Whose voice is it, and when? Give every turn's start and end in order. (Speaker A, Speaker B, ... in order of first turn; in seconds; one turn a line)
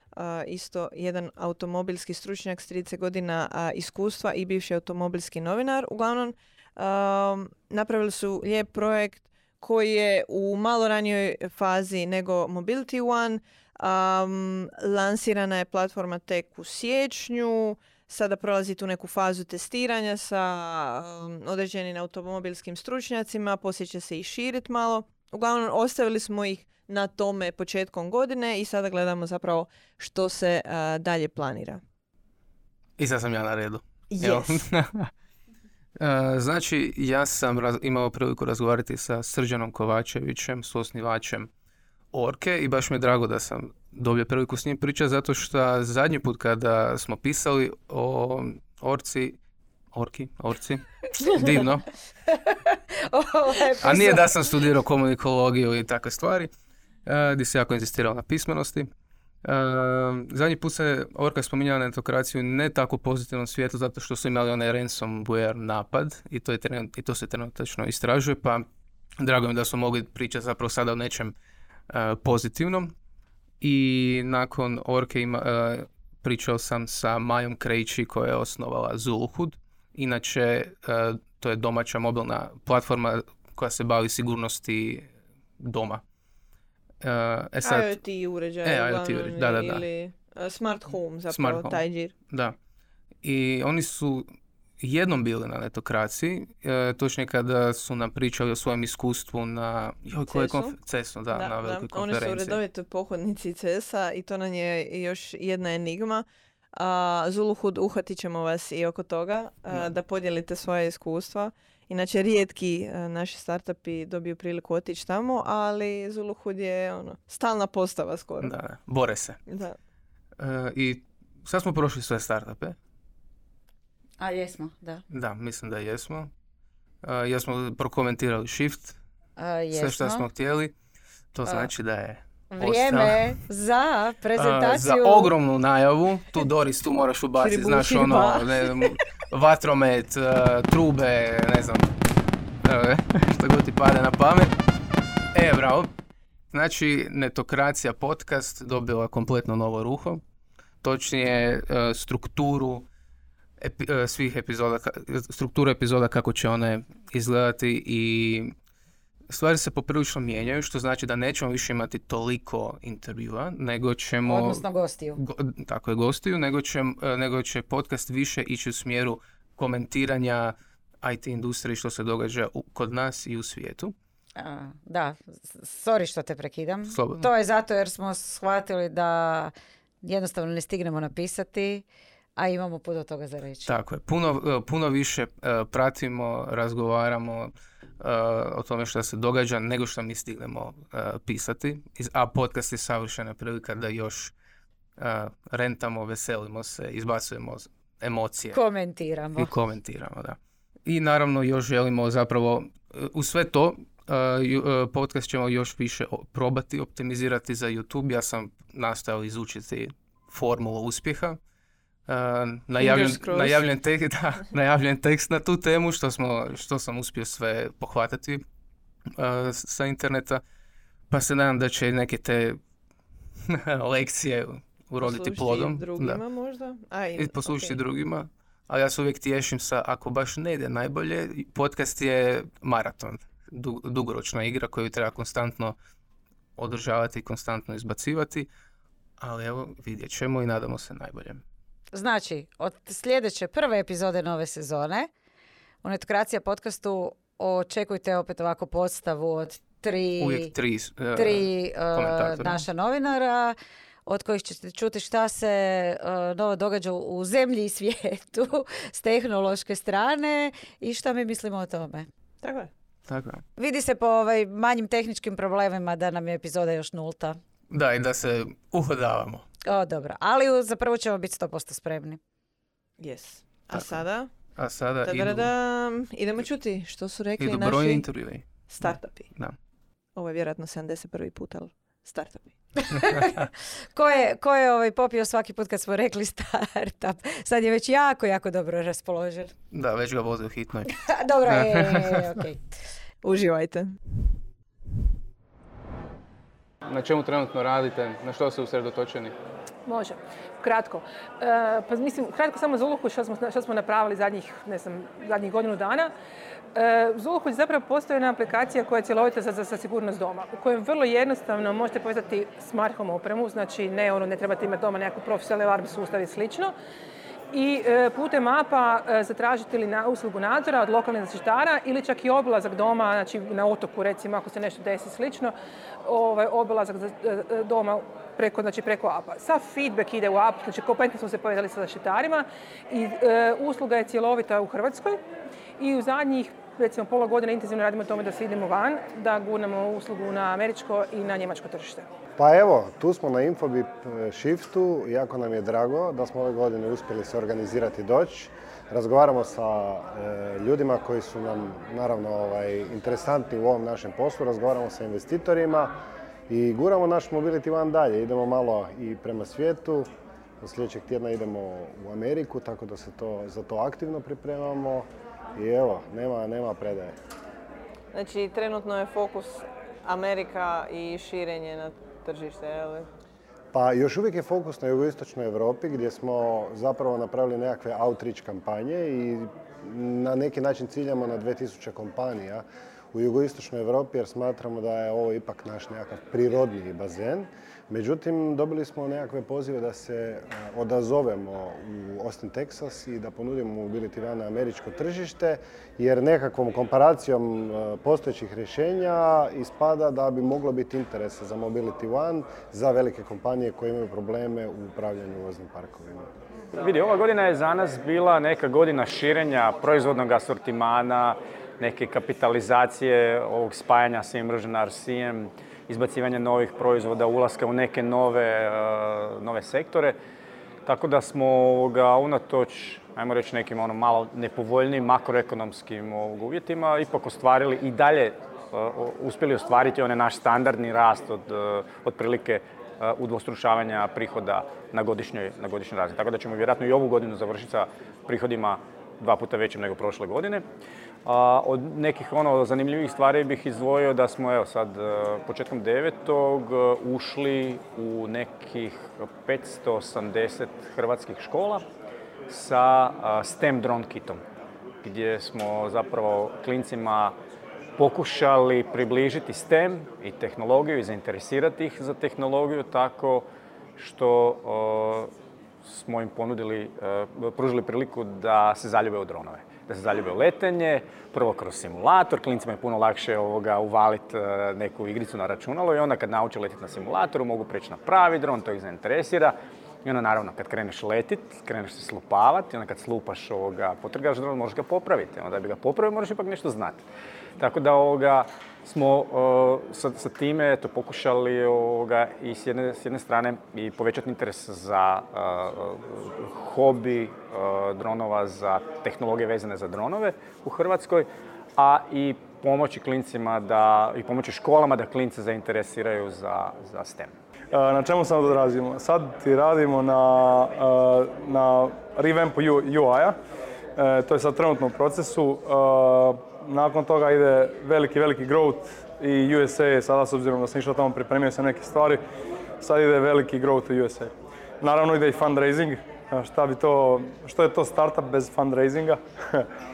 Speaker A: 0.1-31.8
Speaker B: 33.0-35.1
Speaker A: 34.1-34.6
Speaker B: 36.0-41.5
Speaker B: 42.1-49.4
Speaker B: 49.9-51.9
Speaker C: 52.5-54.3
Speaker B: 53.8-56.5
Speaker B: 57.1-58.9
Speaker B: 59.4-68.6
Speaker B: 69.2-71.3
Speaker B: 71.9-72.9
Speaker B: 73.6-86.0
Speaker B: 87.0-88.0
Speaker A: 87.6-92.1
Speaker B: 88.6-89.8
Speaker B: 91.3-92.6
Speaker B: 93.2-94.3
Speaker B: 94.8-102.6
Speaker A: 100.3-100.8
Speaker A: 101.3-106.2
Speaker A: 106.8-118.5
Speaker B: 118.4-119.4
Speaker A: 119.5-119.8
Speaker B: 120.4-122.8
Speaker C: 124.2-125.0
Speaker B: 125.1-126.3
Speaker B: 127.0-129.0
Speaker C: 129.4-130.2
Speaker B: 129.7-130.7
Speaker B: 131.3-133.3
Speaker C: 132.5-135.3
Speaker B: 134.4-141.9
Speaker A: 137.4-138.6
Speaker B: 142.6-144.5
Speaker B: 145.3-145.9
Speaker B: 146.5-150.2
Speaker B: 150.8-152.9
Speaker B: 153.6-158.5
Speaker B: 159.3-164.6
Speaker C: 164.3-165.2
Speaker B: 165.2-173.9
Speaker C: 174.4-181.8
Speaker B: 176.9-177.3
Speaker C: 182.4-183.7
Speaker B: 183.7-194.3
Speaker B: 195.0-198.6
Speaker C: 198.5-199.5
Speaker B: 199.4-211.4
Speaker B: 212.1-218.4
Speaker A: 212.8-213.7
Speaker B: 219.2-220.4
Speaker B: 221.1-222.6
Speaker B: 223.5-226.2
Speaker A: 225.0-227.8
Speaker B: 227.2-235.8
Speaker B: 236.6-238.5
Speaker B: 239.2-241.4
Speaker C: 241.9-245.1
Speaker C: 245.8-250.5
Speaker B: 250.2-252.6
Speaker C: 251.2-262.1
Speaker A: 262.4-262.7
Speaker B: 263.1-263.4
Speaker C: 263.6-267.4
Speaker B: 267.7-269.4
Speaker C: 269.7-272.2
Speaker A: 273.0-274.3
Speaker B: 274.6-275.5
Speaker A: 275.0-278.1
Speaker B: 277.4-279.6
Speaker A: 278.7-279.3
Speaker A: 280.2-282.5
Speaker C: 282.9-289.5
Speaker B: 289.7-290.9
Speaker C: 291.0-292.6
Speaker B: 291.5-292.3
Speaker A: 293.2-294.0
Speaker B: 296.9-299.4
Speaker D: 299.9-306.1
Speaker D: 306.7-316.7
Speaker D: 317.5-325.5
Speaker D: 326.1-335.2
Speaker D: 335.8-342.1
Speaker E: 342.4-356.0
Speaker E: 356.5-360.1
Speaker E: 360.6-367.2
Speaker A: 368.1-373.1
Speaker E: 373.7-406.3
Speaker F: 406.7-420.2
Speaker F: 420.9-440.6
Speaker F: 441.2-451.9
Speaker F: 452.5-454.4
Speaker F: 455.0-457.4
Speaker F: 458.0-465.3
Speaker F: 465.9-487.0
Speaker F: 487.6-507.3
Speaker G: 507.7-513.4
Speaker G: 514.0-522.2
Speaker G: 522.8-529.7